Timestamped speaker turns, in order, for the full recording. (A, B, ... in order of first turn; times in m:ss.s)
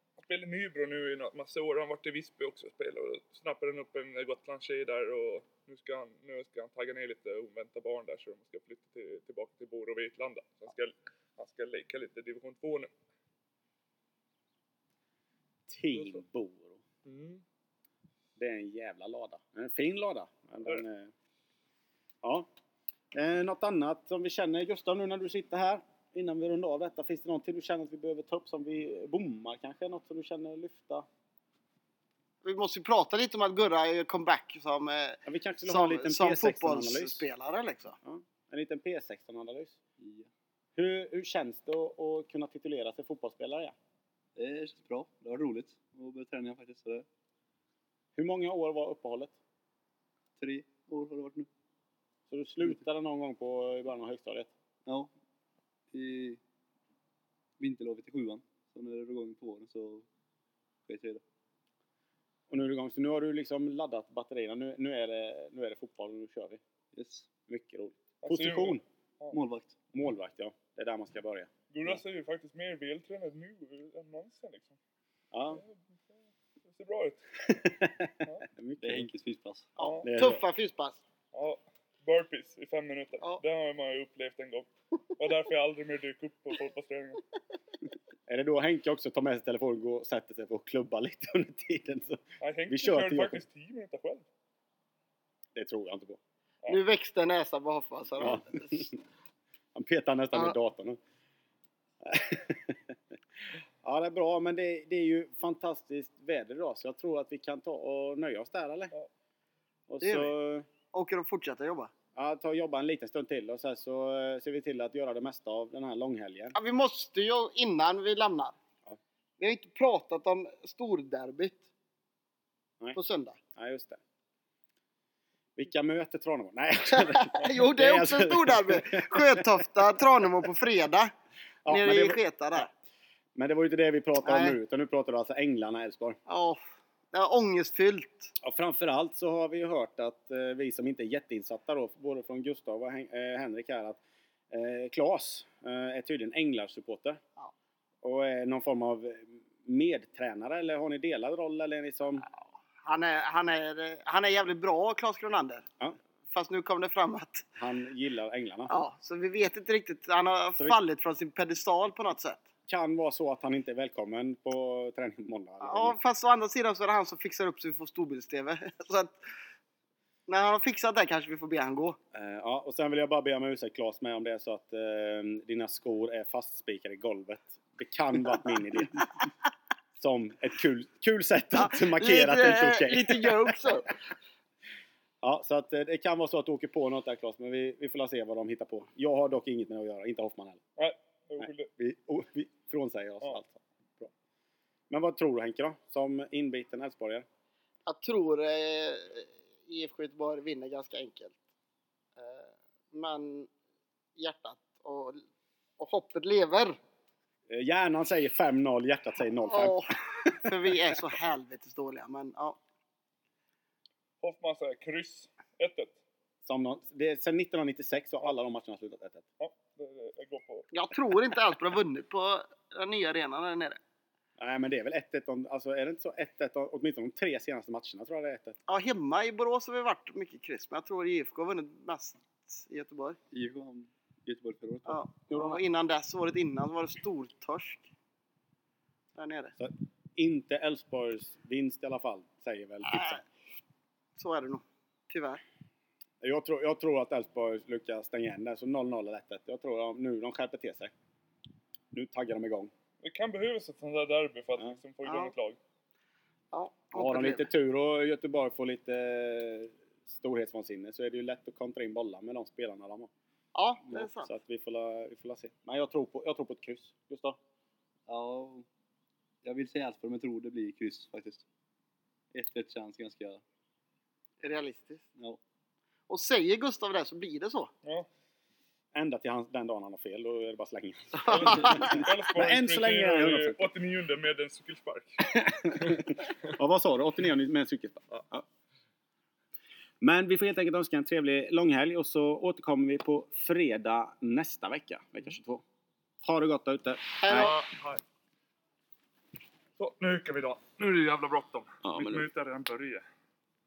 0:00.2-0:12.9 A
0:15.7-0:16.8 B
0:15.9-0:16.2 A
0:17.0-0:17.4 A
0:18.4-0:21.1 B
0:23.1-0:31.0 B
0:32.4-0:38.0 C
0:35.2-0:37.3 B
0:38.0-0:39.8 B
0:40.0-0:40.3 D
0:40.8-0:43.7 B
0:44.4-0:47.0 D
0:48.2-0:49.3 B
0:50.4-0:51.5 D
0:52.3-0:54.5 B
0:54.8-0:55.1 D
0:55.9-0:56.4 D
0:57.6-1:00.0 D
1:00.9-1:01.2 D
1:02.5-1:06.6 B
1:06.9-1:07.3 D
1:07.5-1:08.8 B
1:08.2-1:09.4 A
1:09.3-1:09.7 D
1:09.9-1:12.0 B
1:11.7-1:14.8 A
1:15.3-1:15.6 B
1:15.5-1:15.8 A
1:16.6-1:17.4 A
1:17.6-1:19.1 B
1:18.8-1:19.7 D
1:19.8-1:21.0 C
1:19.8-1:20.1 A
1:20.0-1:20.4 B
1:21.3-1:27.2 A
1:28.3-1:33.4 B
1:32.4-1:34.3 A
1:35.5-1:36.2 B
1:36.7-1:38.9 C
1:38.2-1:39.0 B
1:39.7-1:41.0 B
1:42.0-1:43.0 B
1:43.8-1:48.9 B
1:49.9-1:50.7 B
1:50.0-1:50.3 C
1:50.9-1:51.9 C
1:52.1-1:56.6 B
1:56.5-1:58.5 C
1:59.4-2:01.6 C
2:02.9-2:03.4 C
2:03.5-2:04.0 B
2:05.6-2:09.7 B
2:06.9-2:11.1 C
2:11.6-2:12.7 B
2:11.7-2:12.7 C
2:13.3-2:16.2 B
2:14.2-2:14.6 C
2:16.3-2:18.3 C
2:18.4-2:24.0 B
2:24.5-2:27.2 B
2:28.0-2:32.2 B
2:32.8-2:35.6 C
2:36.3-2:37.4 C
2:37.6-2:38.7 B
2:38.7-2:42.4 C
2:42.7-2:46.0 B
2:45.6-2:49.2 C
2:50.3-2:52.0 C
2:52.1-2:59.0 B
3:00.0-3:03.9 B
3:01.5-3:04.0 C
3:05.2-3:10.6 B
3:10.8-3:11.7 A
3:11.4-3:14.1 B
3:14.9-3:17.2 B
3:17.8-3:21.4 C
3:22.2-3:23.5 C
3:24.2-3:25.2 C
3:25.8-3:26.8 C
3:27.5-3:30.5 B
3:29.4-3:32.6 C
3:34.2-3:36.0 A
3:36.4-3:39.2 B
3:39.4-3:40.7 A
3:40.7-3:43.8 C
3:44.4-3:48.6 B
3:48.7-3:53.2 C
3:53.3-3:55.0 D
3:54.8-3:57.8 C
3:55.3-3:55.6 B
3:59.1-3:59.5 C
3:59.6-4:03.2 B
4:02.8-4:03.2 C
4:04.2-4:05.4 C
4:06.2-4:10.9 B
4:11.9-4:12.7 B
4:13.0-4:15.6 A
4:15.0-4:15.3 C
4:16.5-4:17.5 C
4:16.9-4:23.1 B
4:23.5-4:24.3 C
4:23.8-4:27.4 B
4:28.1-4:28.6 D
4:29.4-4:31.4 D
4:32.3-4:33.4 D
4:34.4-4:35.0 C
4:36.1-4:37.7 C
4:37.8-4:38.1 A
4:38.9-4:43.7 B
4:41.2-4:42.0 C
4:41.2-4:46.2 A
4:45.3-4:48.4 B
4:50.0-4:55.6 B
4:56.2-4:57.5 B
4:57.2-4:57.6 C
4:57.3-4:58.0 A
4:59.8-5:03.0 A
5:01.8-5:02.3 B